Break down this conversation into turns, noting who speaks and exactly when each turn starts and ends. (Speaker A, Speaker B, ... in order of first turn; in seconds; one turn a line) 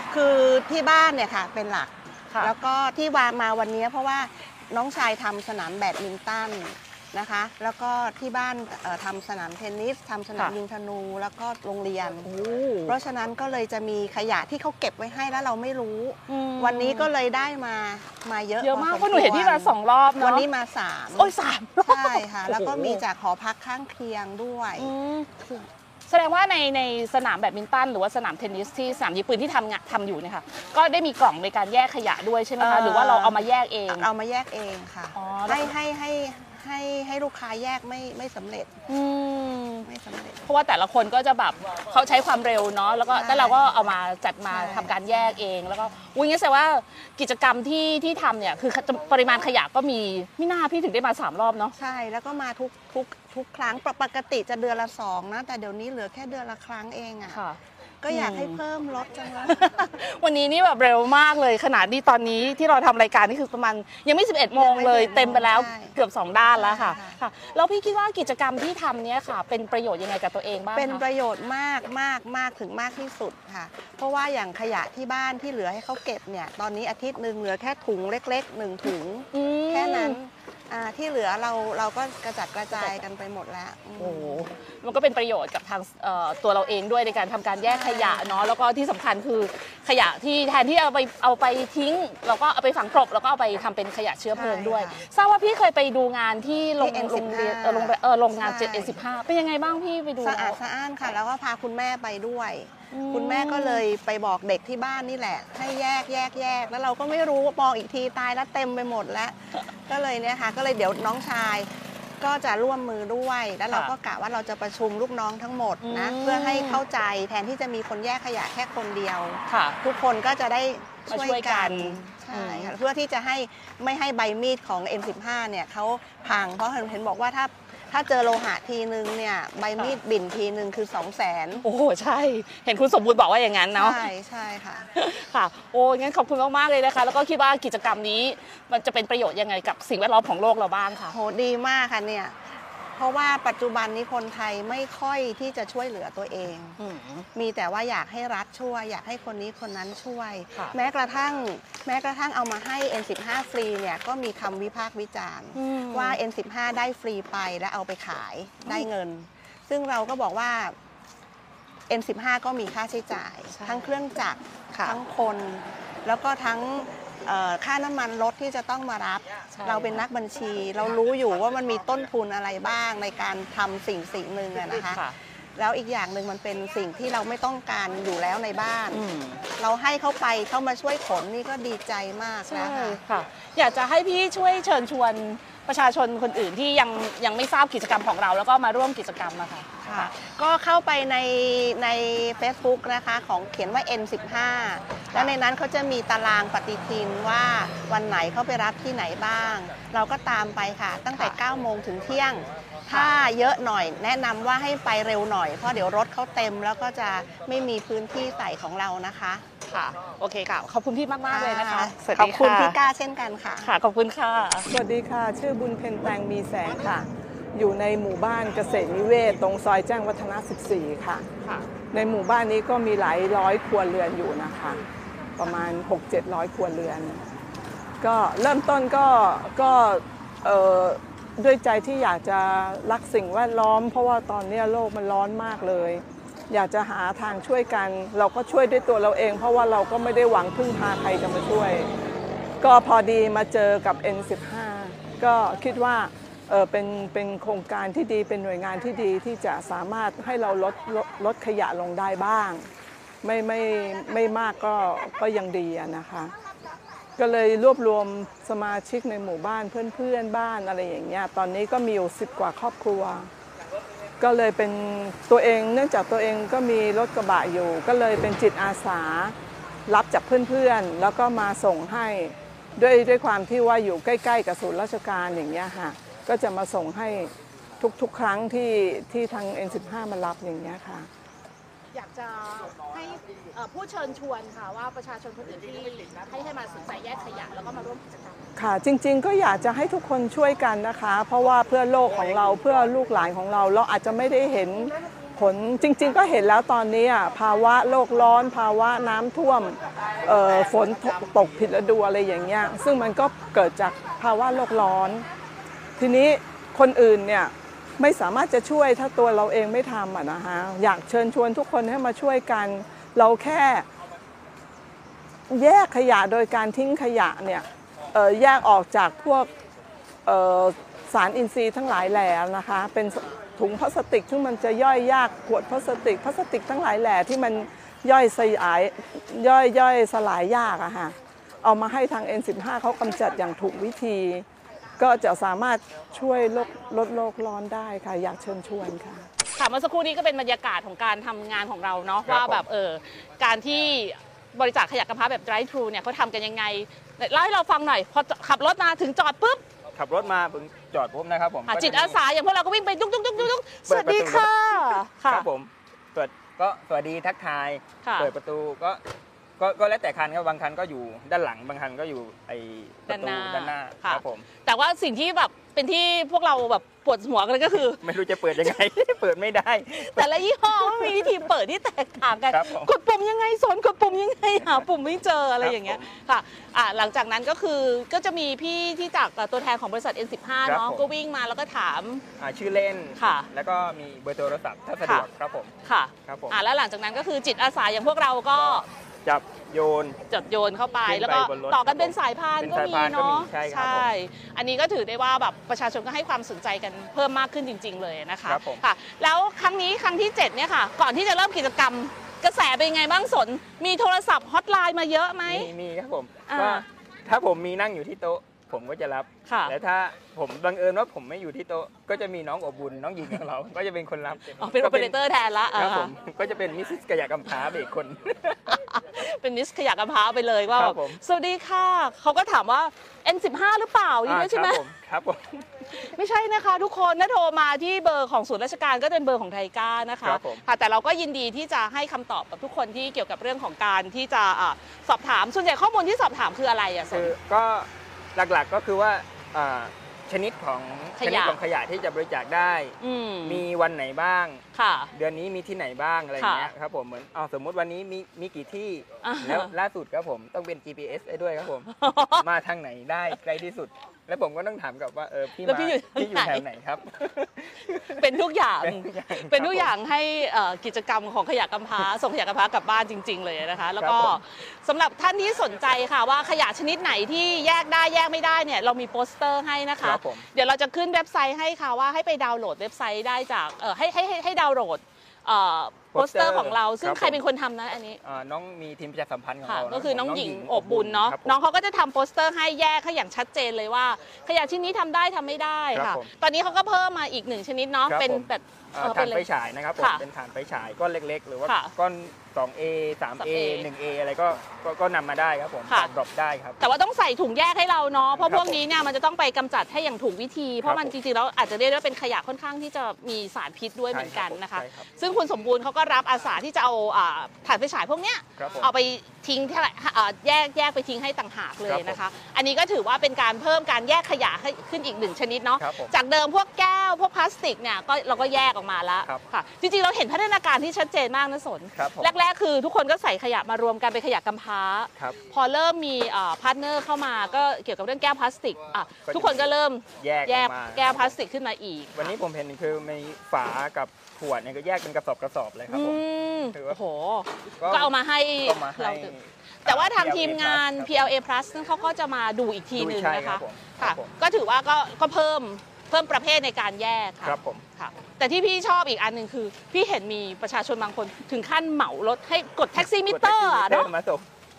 Speaker A: 0.1-12.3
Speaker B: 12.2-12.9
Speaker A: 12.8-24.9
Speaker B: 16.3-17.1
Speaker B: 18.6-20.5
Speaker B: 21.1-23.0
Speaker B: 24.8-34.1
Speaker A: 32.6-38.7
Speaker B: 35.1-35.7
Speaker B: 38.9-39.9
Speaker A: 39.8-40.4
Speaker B: 40.4-51.7
Speaker A: 43.1-43.7
Speaker A: 44.5-45.4
Speaker A: 51.7-57.4
Speaker B: 57.3-58.6
Speaker A: 58.0-59.8
Speaker B: 59.5-71.0
Speaker A: 64.5-66.0
Speaker A: 66.5-67.2
Speaker A: 70.7-84.5
Speaker B: 79.3-80.2
Speaker B: 84.0-100.6
Speaker A: 87.6-88.5
Speaker A: 94.3-95.0
Speaker A: 96.8-99.0
Speaker A: 100.2-131.7
Speaker B: 102.9-103.8
Speaker B: 115.8-116.8
Speaker B: 119.5-119.8
Speaker B: 121.1-122.7
Speaker B: 131.6-134.1
Speaker A: 133.7-134.9
Speaker B: 134.9-141.1
Speaker A: 141.1-142.4
Speaker A: 142.9-146.8
Speaker B: 146.8-147.2
Speaker A: 147.3-160.7
Speaker B: 155.5-156.2
Speaker A: 161.9-175.0
Speaker B: 163.5-163.9
Speaker B: 164.7-165.0
Speaker B: 169.5-170.1
Speaker B: 174.6-175.2
Speaker A: 175.6-183.0
Speaker B: 178.9-179.4
Speaker B: 182.5-190.1
Speaker A: 189.8-209.4
Speaker B: 209.7-212.8
Speaker A: 211.3-213.7
Speaker B: 213.6-214.7
Speaker C: 214.7-221.3
Speaker C: 221.9-224.8
Speaker C: 225.4-227.2
Speaker C: 228.0-241.9
Speaker C: 242.6-252.7
Speaker C: 253.2-256.3
Speaker C: 257.2-263.3
Speaker C: 264.2-269.3
Speaker C: 269.9-281.1
Speaker B: 281.9-288.5
Speaker C: 288.6-305.2
Speaker C: 306.0-313.9
Speaker C: 315.5-319.5
Speaker C: 320.2-334.4
Speaker C: 335.0-339.3
Speaker B: 339.6-349.6
Speaker D: 342.3-342.6
Speaker D: 349.9-352.2
Speaker B: 351.7-355.5
Speaker D: 353.9-359.0
Speaker B: 358.0-358.3
Speaker D: 359.6-364.4
Speaker B: 363.1-368.0
Speaker D: 367.8-371.5
Speaker B: 370.0-382.2
Speaker D: 372.5-372.9
Speaker D: 375.6-376.1
Speaker D: 380.6-381.0
Speaker D: 382.4-385.7
Speaker B: 383.2-383.5
Speaker B: 385.8-388.9
Speaker D: 386.2-386.6
Speaker D: 388.5-390.2
Speaker B: 390.3-405.7
Speaker D: 391.1-394.1
Speaker D: 398.4-398.8
Speaker D: 405.5-415.2
Speaker B: 406.5-406.8
Speaker B: 409.5-409.7
Speaker B: 414.6-416.1
Speaker D: 415.7-418.8
Speaker B: 418.7-424.8
Speaker D: 420.7-421.2
Speaker D: 424.2-425.6
Speaker B: 426.0-437.3
Speaker D: 430.2-430.6
Speaker D: 437.1-444.6
Speaker B: 441.2-441.6
Speaker B: 443.0-443.6
Speaker B: 444.7-445.1
Speaker D: 445.1-459.9
Speaker B: 446.4-446.7
Speaker B: 449.2-449.7
Speaker B: 451.9-452.4
Speaker B: 455.6-456.6
Speaker B: 458.1-478.2
Speaker D: 464.0-464.4
Speaker D: 470.0-470.4
Speaker D: 476.1-477.4
Speaker D: 478.2-481.6
Speaker B: 479.6-489.4
Speaker D: 485.9-486.3
Speaker D: 488.1-496.8
Speaker B: 490.0-490.2
Speaker B: 491.6-491.9
Speaker B: 493.4-493.9
Speaker B: 496.8-532.4
Speaker D: 498.3-498.8
Speaker D: 500.8-501.1
Speaker D: 504.1-505.1
Speaker D: 508.6-508.9
Speaker D: 511.9-512.2
Speaker D: 515.8-516.1
Speaker D: 521.9-522.3
Speaker D: 529.3-531.3
Speaker D: 532.1-537.0
Speaker B: 535.9-539.3
Speaker D: 537.8-541.2
Speaker B: 539.8-554.1
Speaker D: 543.0-544.3
Speaker D: 547.4-547.8
Speaker D: 553.0-554.5